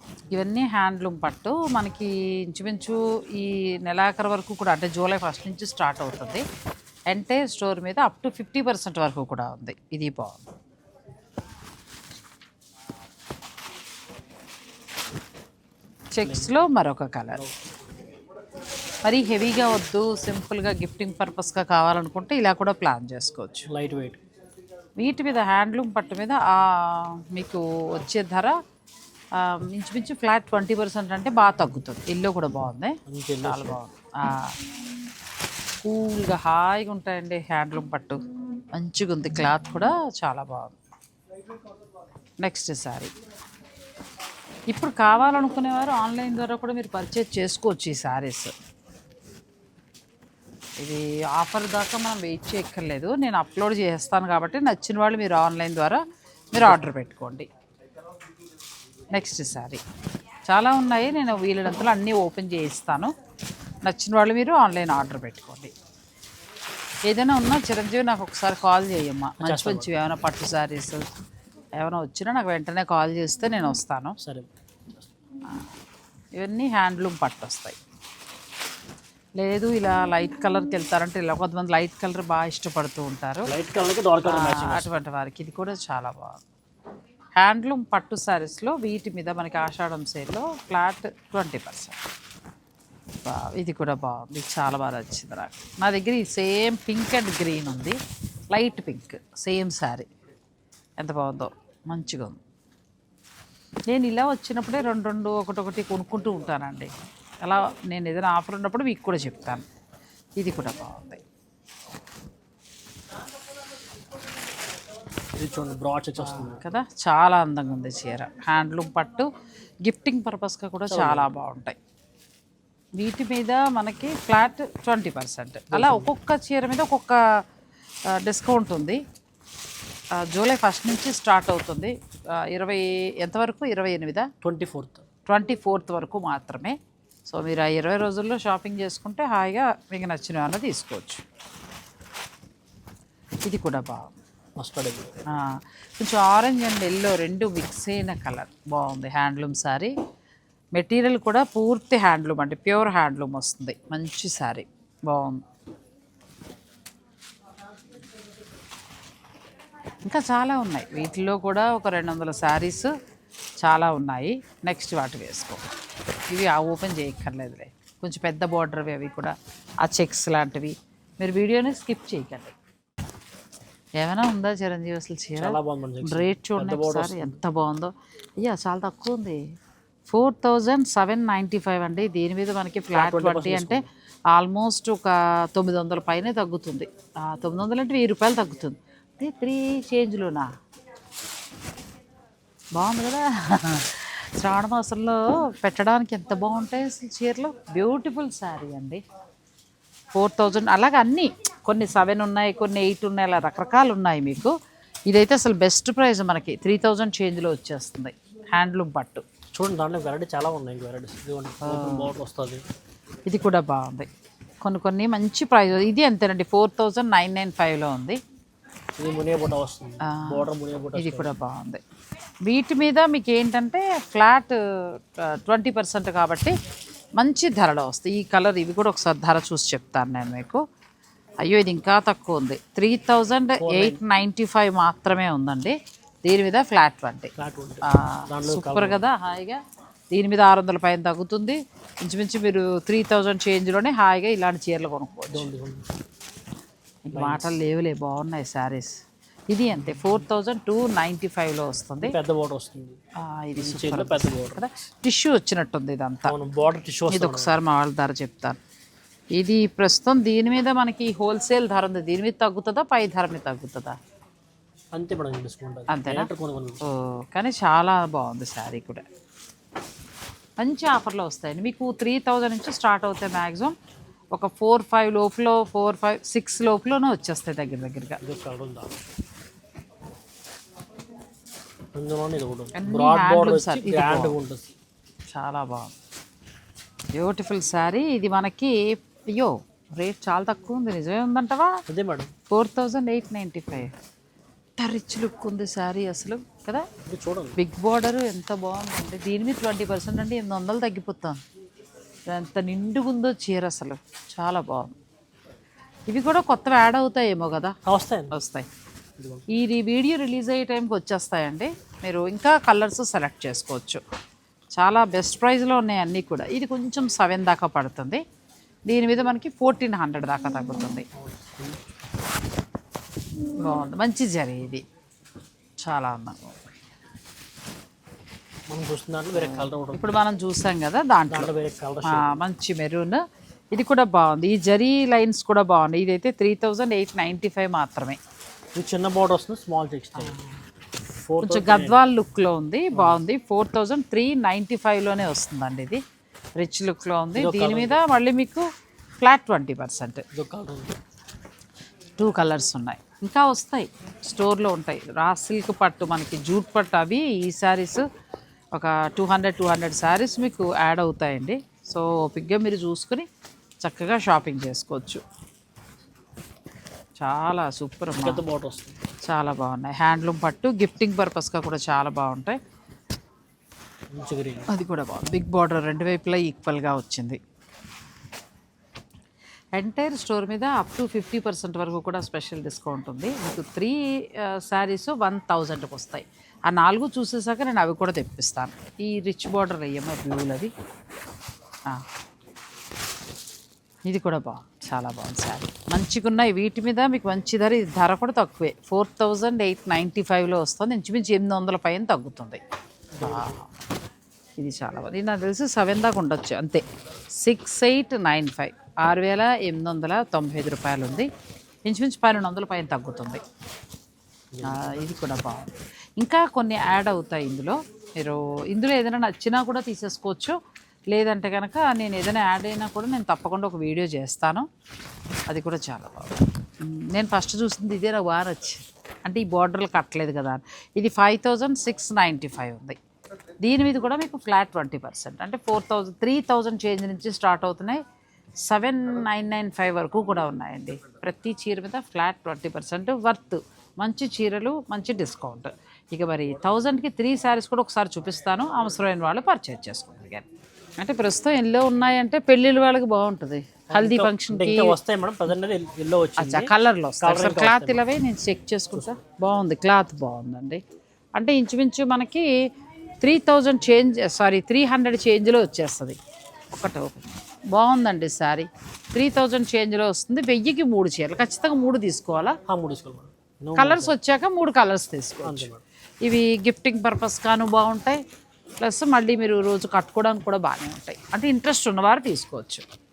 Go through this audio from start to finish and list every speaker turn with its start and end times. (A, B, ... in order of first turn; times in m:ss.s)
0:00.3-0:06.4 A
0:07.1-0:10.4 A
0:16.1-0:17.4 A
0:16.2-0:16.7 B
0:17.3-0:17.7 B
0:19.0-0:23.7 A
0:23.7-0:24.2 B
0:25.0-0:28.6 A
0:29.3-0:34.6 A
0:33.1-0:33.8 B
0:35.8-0:38.2 A
0:38.7-0:40.8 A
0:42.4-0:43.1 A
0:44.7-0:48.5 A
0:50.8-0:56.0 A
0:56.5-0:57.5 A
0:56.6-0:56.8 B
0:59.1-0:59.8 A
1:00.5-1:03.1 A
1:03.8-1:05.7 A
1:07.1-1:11.1 A
1:09.4-1:10.0 B
1:11.8-1:14.2 A
1:14.2-1:15.1 B
1:16.3-1:17.8 A
1:19.4-1:23.5 A
1:23.4-1:24.8 B
1:24.2-1:26.4 A
1:27.4-1:32.0 A
1:33.2-1:38.0 A
1:38.5-1:40.1 A
1:41.0-1:42.4 A
1:43.9-1:46.9 A
1:47.4-1:49.6 A
1:50.4-1:51.2 A
1:55.4-1:56.7 B
1:56.2-1:59.3 A
1:59.8-2:01.8 A
2:00.9-2:01.3 B
2:03.0-2:07.2 A
2:05.7-2:06.1 B
2:08.1-2:09.0 A
2:10.1-2:14.3 A
2:14.4-2:15.0 B
2:15.3-2:21.2 A
2:23.4-2:24.1 A
2:24.6-2:25.2 B
2:25.3-2:29.9 A
2:30.7-2:35.4 A
2:40.0-2:42.9 A
2:43.6-2:45.6 A
2:46.3-2:52.5 A
2:54.0-2:59.4 A
2:55.4-2:57.4 B
3:00.1-3:10.5 A
3:02.9-3:03.8 B
3:12.7-3:19.0 A
3:20.1-3:24.5 A
3:25.1-3:29.2 A
3:29.5-3:32.6 B
3:31.6-3:32.1 A
3:33.2-3:34.1 A
3:34.6-3:38.2 A
3:39.0-3:41.3 B
3:40.0-3:41.8 A
3:42.4-3:46.5 A
3:47.2-3:50.6 A
3:51.4-3:57.3 A
3:53.6-3:54.0 B
3:57.4-3:59.0 B
3:57.8-4:05.5 A
4:05.3-4:05.9 B
4:07.1-4:08.9 A
4:07.1-4:07.6 B
4:09.5-4:12.1 A
4:10.0-4:10.2 B
4:12.0-4:13.0 B
4:13.2-4:16.3 A
4:13.6-4:14.7 B
4:16.2-4:17.6 B
4:17.1-4:18.6 A
4:19.3-4:24.0 A
4:24.9-4:26.8 B
4:25.9-4:26.3 A
4:26.8-4:29.0 A
4:30.6-4:33.7 A
4:34.3-4:38.2 A
4:38.2-4:38.9 B
4:41.9-4:44.7 B
4:42.7-4:44.4 A
4:45.3-4:45.9 A
4:47.1-4:51.8 A
4:51.9-4:52.3 B
4:52.5-4:53.9 A
4:54.8-4:56.9 A
4:57.0-4:57.6 B
4:57.6-5:01.4 A
5:02.3-5:04.9 A
5:06.1-5:07.8 A
5:07.8-5:08.4 B
5:08.3-5:08.6 A
5:09.2-5:09.4 B
5:09.5-5:14.0 A
5:14.7-5:18.2 A
5:18.9-5:21.0 A
5:21.1-5:22.0 B
5:23.6-5:24.8 A
5:25.8-5:26.7 A
5:28.7-5:30.2 B
5:29.4-5:31.5 A
5:31.3-5:32.4 B
5:32.0-5:38.2 A
5:38.7-5:40.4 B
5:40.2-5:40.5 A
5:41.0-5:42.0 B
5:41.4-5:46.0 A
5:42.9-5:43.2 B
5:46.6-5:48.7 A
5:47.3-5:48.0 B
5:49.2-5:50.2 A
5:50.3-5:51.0 B
5:52.2-5:58.0 A
5:58.7-6:03.2 A
6:03.8-6:05.2 A
6:07.2-6:08.4 A
6:08.2-6:09.0 B
6:09.2-6:12.6 A
6:14.1-6:14.7 B
6:14.7-6:17.4 A
6:19.8-6:30.7 A
6:34.1-6:42.6 A
6:43.1-6:43.6 B
6:43.2-6:43.7 A
6:44.6-6:46.8 A
6:47.3-6:51.3 A
6:51.8-6:53.4 A
6:54.5-6:55.4 B
6:54.6-7:00.6 A
7:01.1-7:04.7 A
7:05.5-7:13.0 A
7:13.6-7:18.0 A
7:18.6-7:30.4 A
7:31.0-7:35.0 A
7:33.9-7:38.0 B
7:36.4-7:40.8 A
7:38.9-7:39.2 B
7:41.4-7:42.5 A
7:43.2-7:46.2 A
7:46.7-7:52.6 A
7:52.7-7:54.2 B
7:53.8-7:55.7 A
7:55.4-7:55.8 B
7:56.2-7:58.2 A
7:58.8-8:02.8 A